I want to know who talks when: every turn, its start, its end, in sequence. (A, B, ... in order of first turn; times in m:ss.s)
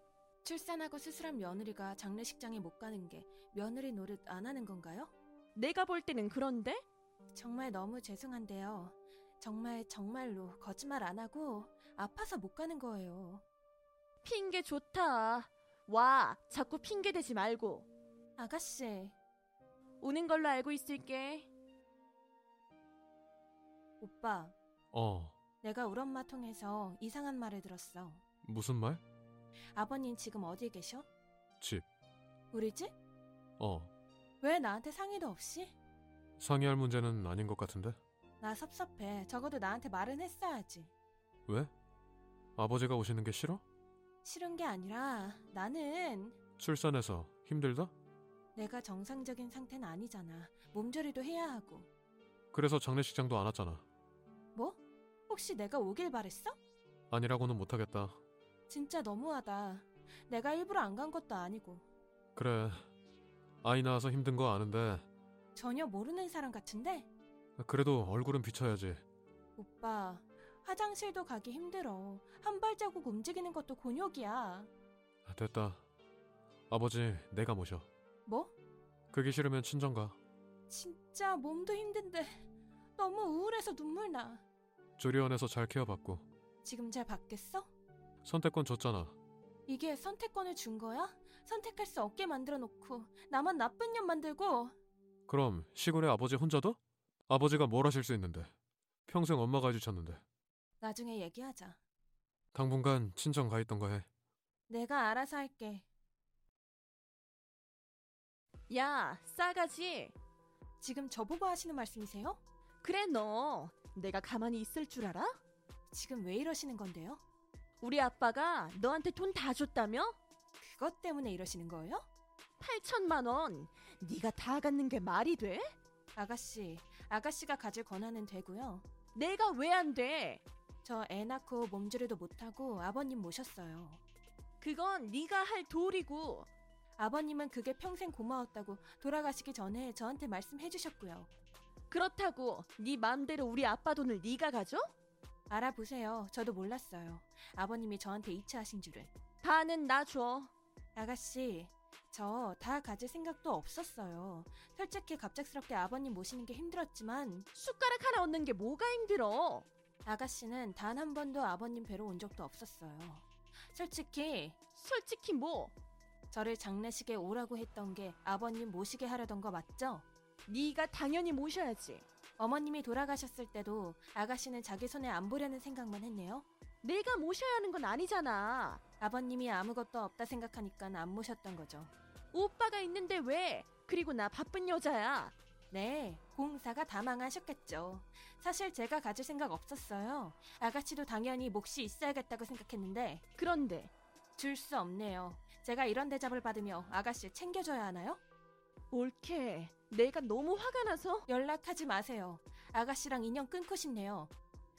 0:00.4-0:05.1 A
0:05.6-0:06.8 B
0:07.3-0:13.4 A
0:14.2-0:17.9 B
0:18.4-0:19.2 A
0:20.0-0:21.5 B
0:24.0-0:24.6 A
0:24.9-0:25.4 C
0:25.6-0:28.2 A
0:28.4-0:29.0 C
0:29.8-0:31.1 A
0:31.6-0:31.9 C
0:32.5-0:33.0 A
0:33.6-0:33.9 C
0:34.4-0:35.8 A
0:36.4-0:38.0 C
0:38.4-0:40.9 A
0:42.6-0:43.6 C
0:44.2-0:46.4 A
0:46.6-0:47.9 C
0:48.6-0:51.9 A
0:52.5-0:53.8 C
0:54.6-0:56.6 A
0:57.1-0:58.2 C
0:58.7-1:01.8 A
1:02.4-1:02.9 C
1:03.6-1:05.1 C
1:05.6-1:07.1 A
1:07.6-1:09.0 C
1:09.6-1:14.7 A
1:15.3-1:15.9 C
1:16.7-1:17.9 C
1:18.3-1:18.5 A
1:19.1-1:20.2 C
1:20.7-1:22.4 A
1:23.0-1:24.4 A
1:25.0-1:26.3 C
1:26.6-1:27.7 A
1:28.2-1:29.2 C
1:29.7-1:34.8 A
1:35.3-1:38.5 C
1:39.1-1:40.2 C
1:40.8-1:41.8 A
1:42.5-1:44.1 C
1:44.7-1:45.9 A
1:48.7-1:50.1 B
1:50.8-1:52.4 A
1:52.8-1:55.4 B
1:55.9-1:57.2 A
1:57.8-2:00.2 B
2:00.6-2:02.1 A
2:02.6-2:05.7 B
2:06.2-2:08.8 A
2:09.2-2:10.4 B
2:10.8-2:14.0 A
2:14.6-2:16.5 B
2:17.0-2:21.3 A
2:21.9-2:24.9 B
2:25.5-2:29.1 A
2:29.4-2:30.5 B
2:31.0-2:37.5 A
2:37.5-2:39.7 B
2:40.0-2:44.6 A
2:44.8-2:45.7 B
2:46.3-2:50.1 A
2:50.5-2:52.0 B
2:52.4-2:56.5 A
2:56.8-2:58.8 B
2:59.0-3:01.9 A
3:02.3-3:05.3 B
3:05.7-3:13.2 A
3:13.4-3:13.9 B
3:14.4-3:18.2 A
3:18.9-3:21.3 B
3:21.3-3:24.3 A